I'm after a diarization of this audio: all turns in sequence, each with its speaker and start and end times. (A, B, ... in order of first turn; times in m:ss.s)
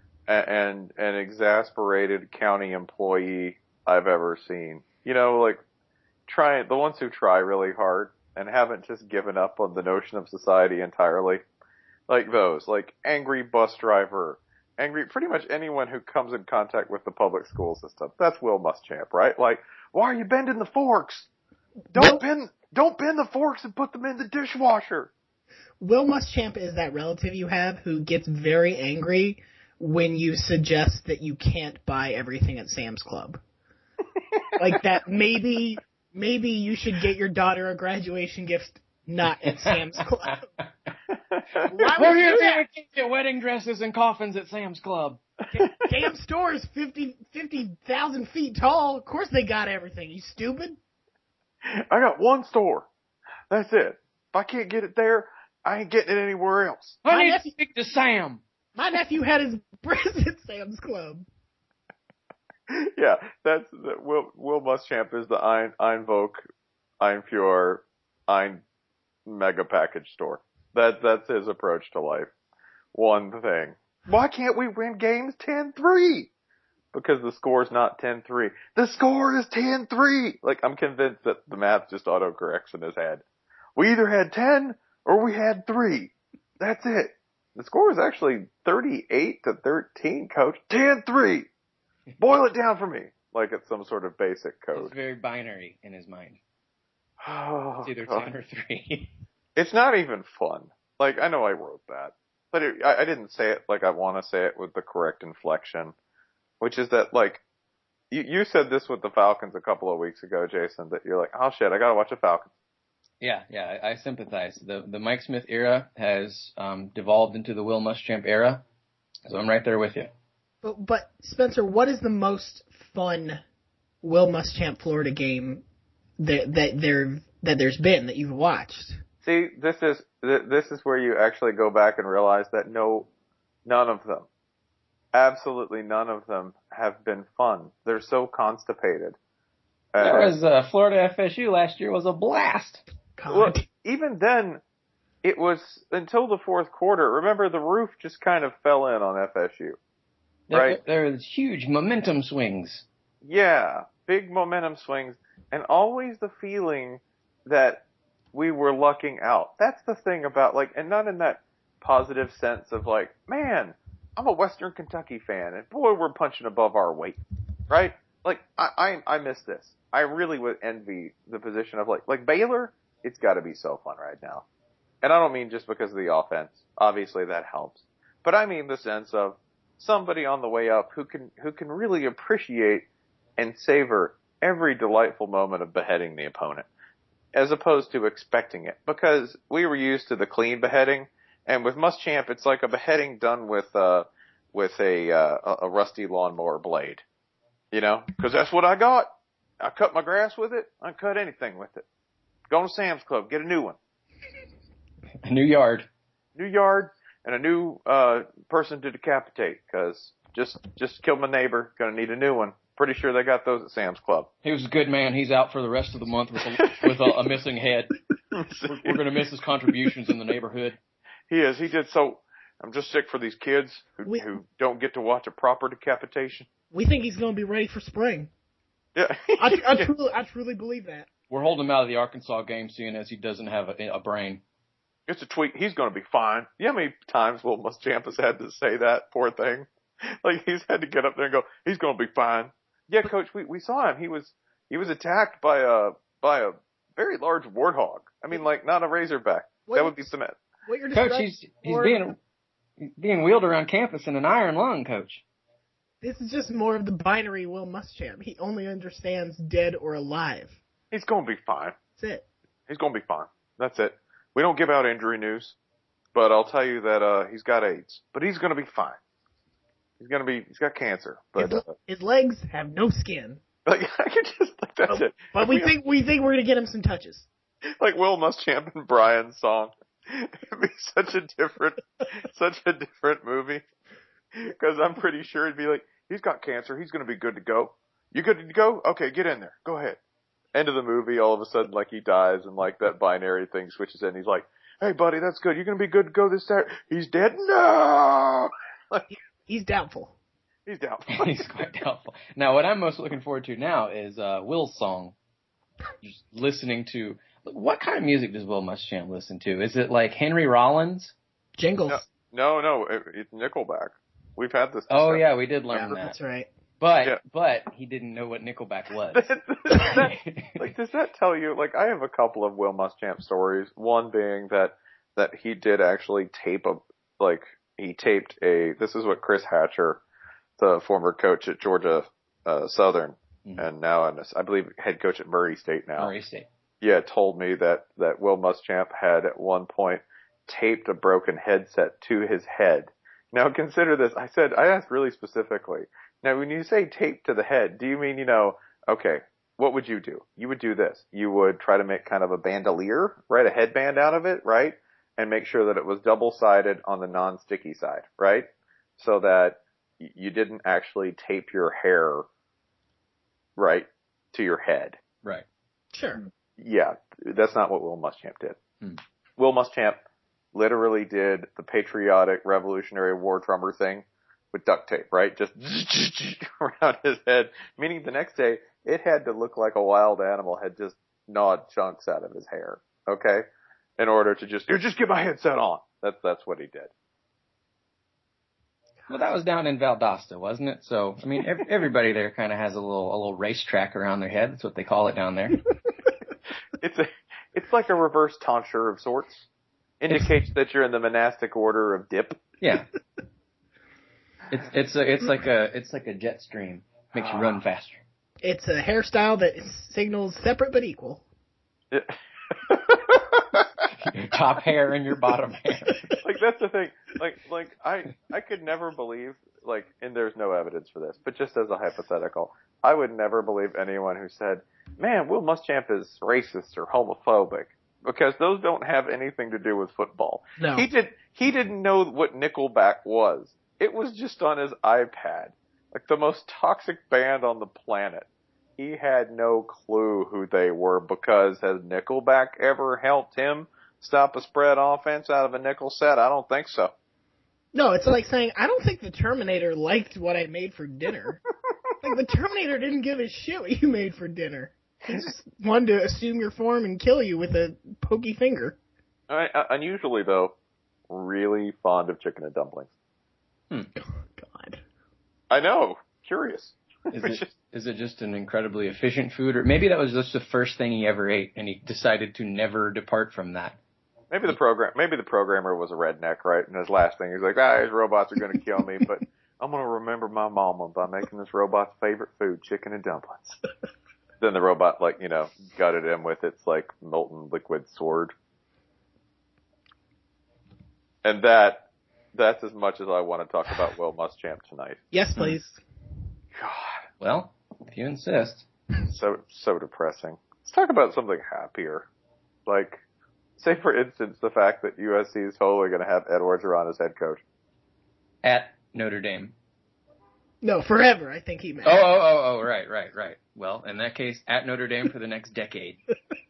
0:00.3-0:05.6 A
0:06.3-0:11.4 A
0:12.1-0:21.3 A
0:21.9-0:22.2 B
0:21.9-0:25.1 A
0:25.8-0:33.4 B
0:34.6-0:40.5 B
0:39.5-0:40.3 C
0:41.6-0:42.7 B
0:42.0-0:45.2 C
0:45.5-0:50.8 B
0:51.6-0:52.9 A
0:53.5-0:57.0 A
0:57.0-0:58.4 C
0:57.1-0:57.5 B
0:58.8-1:01.3 B
1:02.7-1:06.5 A
1:07.0-1:08.6 A
1:09.3-1:12.3 A
1:12.9-1:16.3 A
1:16.9-1:23.2 A
1:23.8-1:31.5 A
1:32.2-1:34.9 A
1:34.8-1:36.4 C
1:37.2-1:38.3 A
1:37.8-1:39.1 C
1:39.6-1:45.9 A
1:46.6-1:47.4 A
1:48.1-1:52.5 A
1:53.2-1:58.6 C
1:59.3-2:00.1 C
2:00.6-2:03.4 B
2:04.0-2:05.6 B
2:06.2-2:09.0 B
2:09.2-2:13.1 A
2:13.7-2:14.3 A
2:15.1-2:19.2 A
2:19.9-2:20.3 A
2:20.0-2:22.8 C
2:23.2-2:23.6 B
2:23.3-2:24.6 A
2:25.2-2:29.8 A
2:30.5-2:32.9 C
2:30.5-2:30.8 A
2:33.2-2:54.4 A
2:55.0-3:06.7 A
3:07.3-3:17.0 A
3:17.7-3:19.1 A
3:19.6-3:21.8 A
3:22.5-3:23.8 A
3:25.2-3:25.9 C
3:26.4-3:34.3 A
3:34.4-3:37.9 C
3:38.4-3:39.0 A
3:38.6-3:40.8 C
3:41.3-3:46.5 A
3:46.7-3:48.3 B
3:49.0-3:49.9 A
3:49.4-3:51.1 B
3:51.3-3:54.4 C
3:55.1-4:10.4 A
4:09.7-4:10.1 B
4:10.7-4:12.0 B
4:10.9-4:12.2 C
4:12.8-4:15.2 C
4:16.0-4:20.6 B
4:20.9-4:21.8 A
4:22.0-4:22.2 B
4:22.7-4:25.6 A
4:26.2-4:29.0 A
4:30.0-4:31.7 A
4:31.4-4:33.4 B
4:33.7-4:35.8 A
4:34.9-4:37.3 B
4:37.8-4:43.6 A
4:44.4-4:50.0 A
4:50.5-4:59.0 A
4:59.1-5:00.2 B
5:00.7-5:01.4 A
5:01.1-5:05.2 C
5:06.0-5:11.1 C
5:11.6-5:12.0 B
5:11.9-5:15.2 A
5:14.9-5:16.2 C
5:15.7-5:16.5 B
5:16.8-5:20.6 C
5:19.1-5:30.0 A
5:30.6-5:36.1 A
5:36.0-5:36.5 C
5:36.8-5:58.5 A
5:59.0-6:02.3 A
6:03.6-6:05.0 A
6:05.9-6:06.2 B
6:06.6-6:08.6 A
6:09.4-6:10.0 A
6:10.5-6:23.5 A
6:24.0-6:26.9 A
6:29.1-6:35.6 C
6:36.8-6:39.4 A
6:40.0-6:42.4 A
6:42.6-6:42.9 C
6:44.5-6:48.0 C
6:47.2-6:47.5 A
6:48.4-6:51.2 B
6:51.9-6:53.6 A
6:54.0-6:56.0 C
6:56.2-7:18.3 A
7:10.6-7:10.9 B
7:18.8-7:26.9 A
7:27.7-7:31.4 B
7:32.0-7:38.8 B
7:39.3-7:40.5 A
7:41.1-7:42.9 A
7:44.0-7:44.8 B
7:45.5-7:47.5 A
7:47.1-7:53.8 C
7:54.3-8:03.6 A
8:04.4-8:08.3 A
8:11.2-8:15.0 A
8:15.1-8:15.8 B
8:16.6-8:17.0 A
8:17.2-8:18.7 C
8:19.1-8:22.1 A
8:22.7-8:23.0 A
8:23.6-8:27.4 A
8:28.4-8:29.5 C
8:30.6-8:32.1 B
8:31.8-8:36.0 C